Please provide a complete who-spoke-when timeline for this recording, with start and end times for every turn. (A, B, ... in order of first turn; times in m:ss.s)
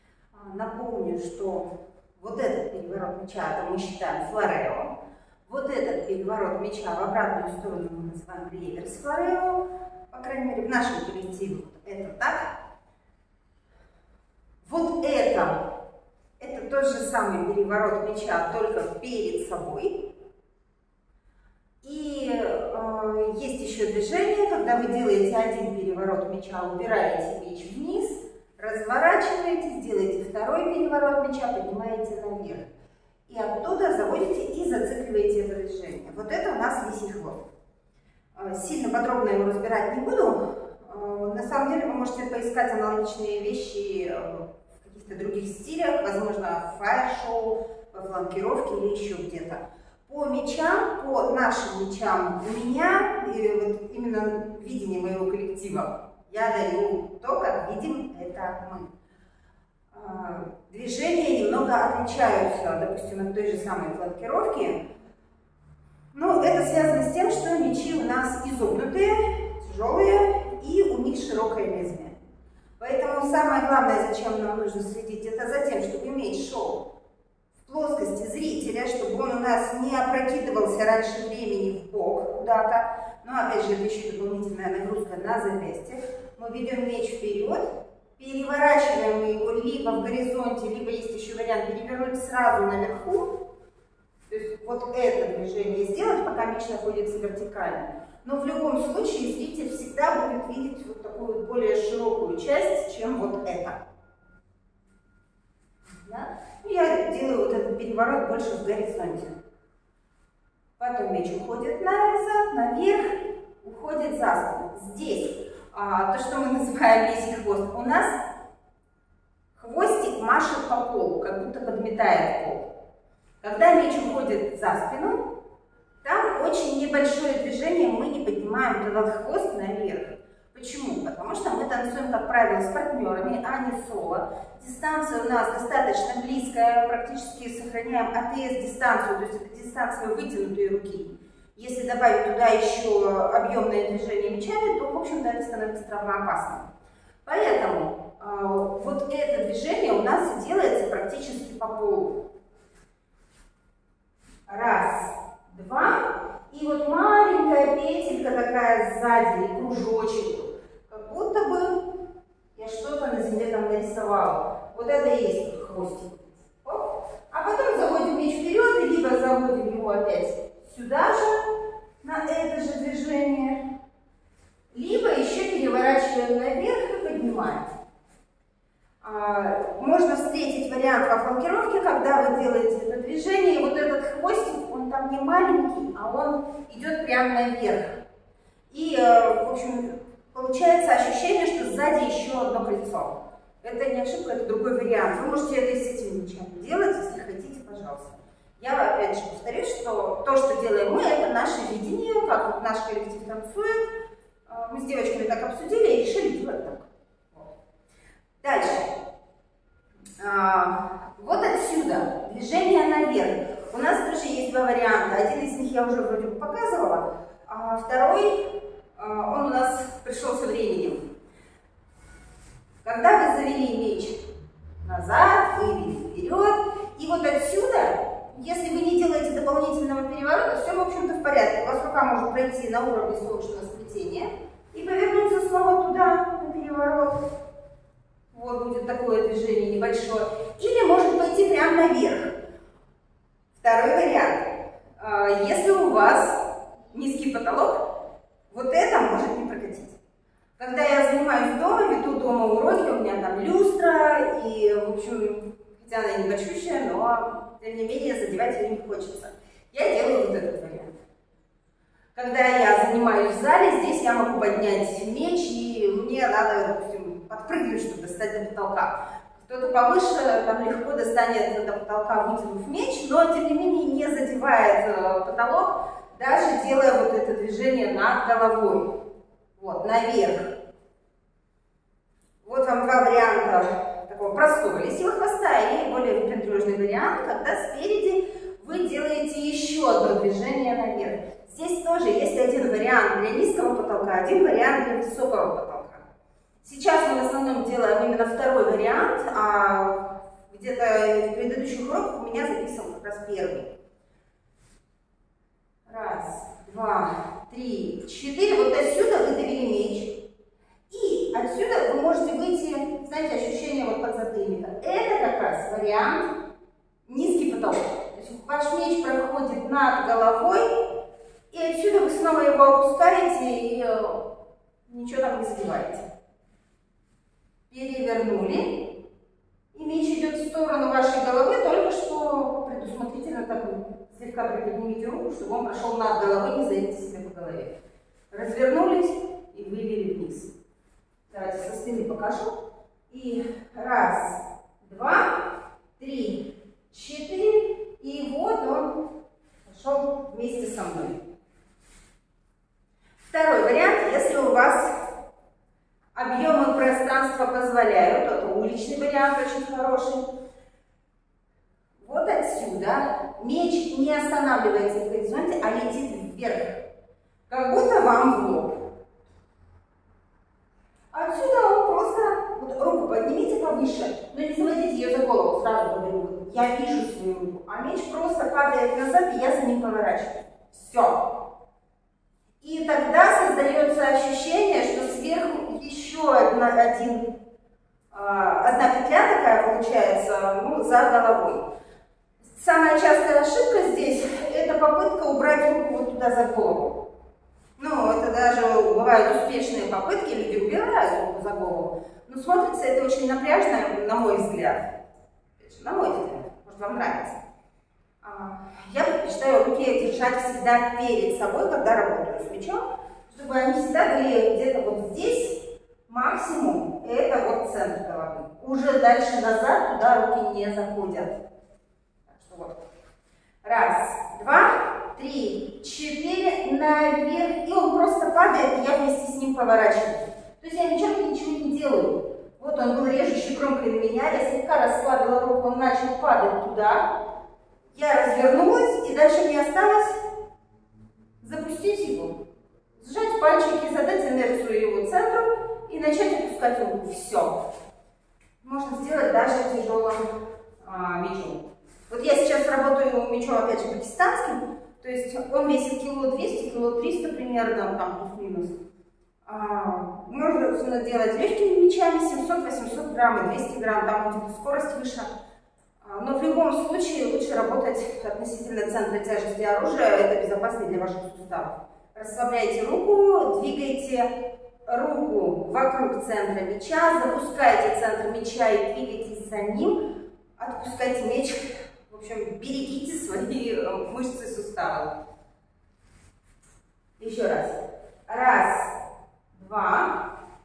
0:00.3-0:04.9 A
0:05.5-0:12.5 A
0:14.6-0:15.6 A
0:16.4-0:20.0 A
0:21.8-0:32.7 A
0:33.3-0:37.4 A
0:38.4-0:58.9 A
0:59.9-1:04.8 A
1:06.1-1:12.2 A
1:12.8-1:16.8 A
1:17.6-1:27.6 A
1:28.2-1:33.3 A
1:34.3-1:43.8 A
1:46.0-1:49.3 A
1:50.8-1:58.1 A
1:59.6-2:02.7 A
2:03.4-2:05.2 A
2:06.0-2:26.6 A
2:27.2-2:32.2 A
2:34.5-2:42.0 A
2:42.6-2:53.6 A
2:54.7-2:57.7 A
2:59.0-3:08.0 A
3:08.7-3:23.9 A
3:24.5-3:27.5 A
3:28.4-3:28.9 A
3:30.2-3:41.0 A
3:42.8-3:44.2 A
3:44.8-3:57.2 A
3:58.3-4:02.3 A
4:03.5-4:06.4 A
4:06.9-4:07.9 A
4:08.5-4:10.0 A
4:10.6-4:20.9 A
4:22.2-4:38.9 A
4:39.6-4:40.5 A
4:42.4-4:56.0 A
4:56.6-5:03.7 A
5:05.9-5:10.2 A
5:10.9-5:16.3 A
5:17.1-5:20.7 A
5:21.5-5:24.2 A
5:24.9-5:26.0 A
5:27.7-5:28.9 A
5:29.7-5:37.7 A
5:38.3-5:40.5 A
5:41.3-5:42.5 A
5:43.1-5:49.0 A
5:49.6-5:51.2 A
5:53.3-5:54.9 A
5:56.2-6:00.2 A
6:02.0-6:06.8 A
6:07.5-6:08.8 A
6:11.1-6:21.3 A
6:22.6-6:27.3 A
6:28.1-6:31.6 A
6:32.4-6:37.0 A
6:37.8-6:44.9 A
6:45.6-6:47.4 A
6:48.2-7:01.4 A
7:02.3-7:02.8 A
7:03.6-7:17.0 A
7:17.9-7:20.2 A
7:21.4-7:22.4 A
7:23.0-7:27.6 A
7:28.6-7:30.2 A
7:30.8-7:38.8 A
7:39.4-7:45.3 A
7:46.0-7:54.3 A
7:54.9-8:00.0 A
8:00.6-8:05.1 A
8:07.2-8:08.9 A
8:09.5-8:10.3 A